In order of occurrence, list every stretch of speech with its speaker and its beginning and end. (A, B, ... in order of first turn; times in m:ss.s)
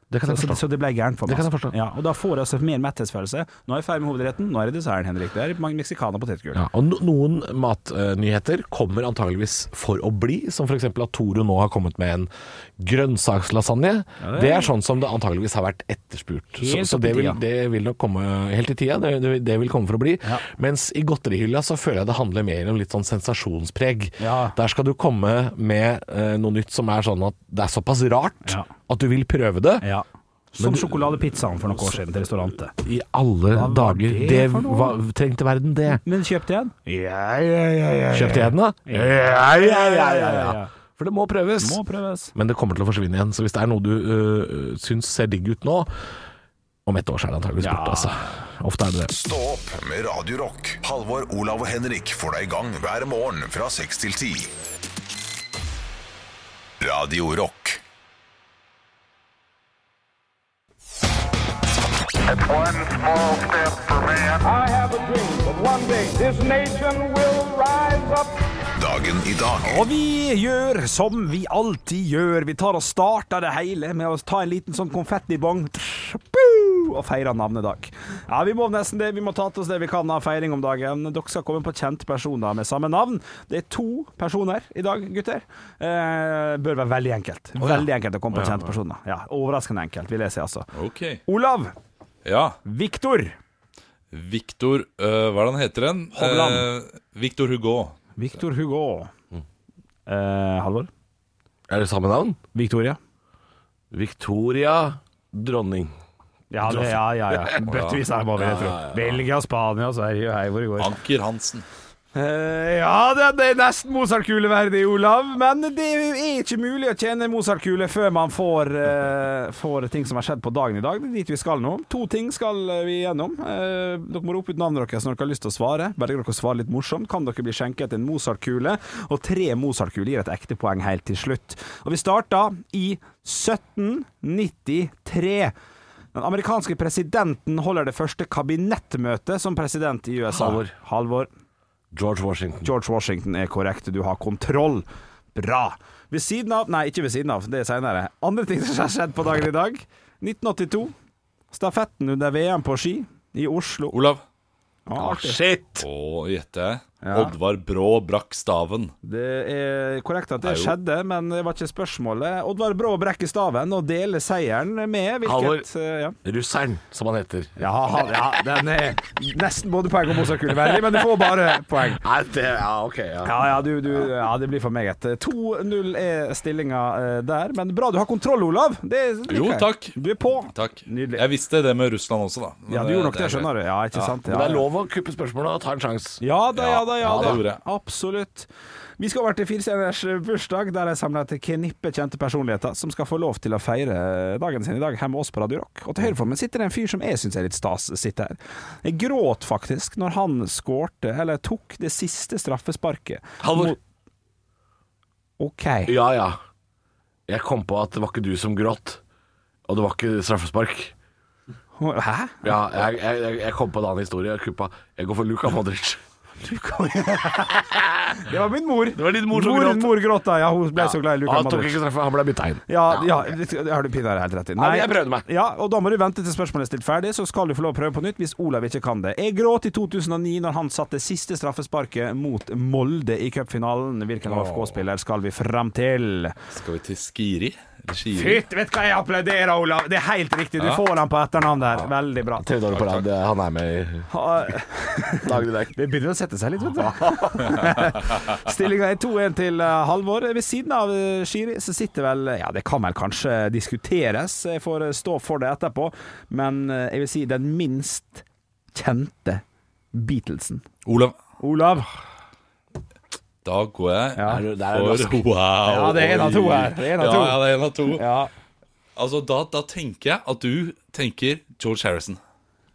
0:00.1-0:00.6 A
0:00.2-0:06.6 B
0:01.2-0:01.7 A
0:06.5-0:29.8 A
0:14.2-0:14.7 B
0:16.6-0:17.4 B
0:24.2-0:24.6 B
0:29.8-0:32.7 B
0:30.6-0:31.1 A
0:32.8-0:36.0 A
0:33.5-0:35.0 B
0:36.0-0:40.7 B
0:38.1-0:41.8 A
0:41.6-0:42.3 B
0:42.3-0:45.9 A
0:46.8-0:49.1 A
0:47.6-0:48.4 B
0:49.1-0:54.5 C
0:56.8-0:57.8 C
1:02.2-1:08.3 D
1:08.8-1:09.8 C
1:09.6-1:30.7 B
1:27.6-1:28.7 A
1:30.7-1:31.2 E
1:31.3-1:31.7 B
1:32.2-1:32.6 E
1:32.6-1:33.4 B
1:34.1-1:37.9 E
1:36.1-1:36.7 B
1:38.2-1:39.1 B
1:40.1-1:40.9 B
1:41.7-1:42.4 A
1:42.5-1:43.0 B
1:43.9-1:45.9 A
1:46.5-1:50.9 B
1:46.6-1:47.6 A
1:47.6-1:48.0 E
1:48.4-1:49.2 A
1:50.8-1:51.6 E
1:52.1-2:15.5 B
2:16.1-2:21.3 B
2:20.3-2:20.7 A
2:21.9-2:22.7 A
2:22.6-2:30.9 B
2:31.5-2:34.0 B
2:33.9-2:34.2 E
2:34.9-2:35.4 B
2:34.9-2:35.8 A
2:35.8-2:38.9 E
2:37.0-2:37.3 B
2:39.0-2:46.2 B
2:40.4-2:40.7 E
2:45.2-2:45.6 A
2:46.2-2:48.1 A
2:47.6-2:52.0 B
2:50.6-2:51.2 A
2:51.9-2:53.4 A
2:53.2-3:01.2 B
2:59.3-3:00.0 E
3:00.5-3:04.1 E
3:02.7-3:04.6 B
3:04.2-3:06.2 A
3:06.2-3:23.8 B
3:06.6-3:07.6 E
3:07.0-3:07.4 A
3:23.4-3:23.8 A
3:25.4-3:25.9 B
3:25.8-3:26.4 A
3:27.3-3:29.0 A
3:29.7-3:30.9 A
3:31.8-3:32.4 B
3:32.4-3:36.0 A
3:36.4-3:41.8 B
3:38.9-3:40.1 A
3:40.8-3:43.3 A
3:42.7-3:56.4 B
3:44.6-3:45.3 A
3:54.2-3:54.8 A
3:56.5-3:58.4 E
3:58.1-4:02.4 B
4:02.4-4:04.1 A
4:02.7-4:03.0 E
4:04.1-4:20.6 B
4:05.2-4:05.7 A
4:20.8-4:21.1 E
4:21.4-4:21.9 B
4:23.4-4:28.0 E
4:24.2-4:24.4 B
4:24.2-4:25.2 A
4:25.6-4:28.3 B
4:29.0-4:32.2 E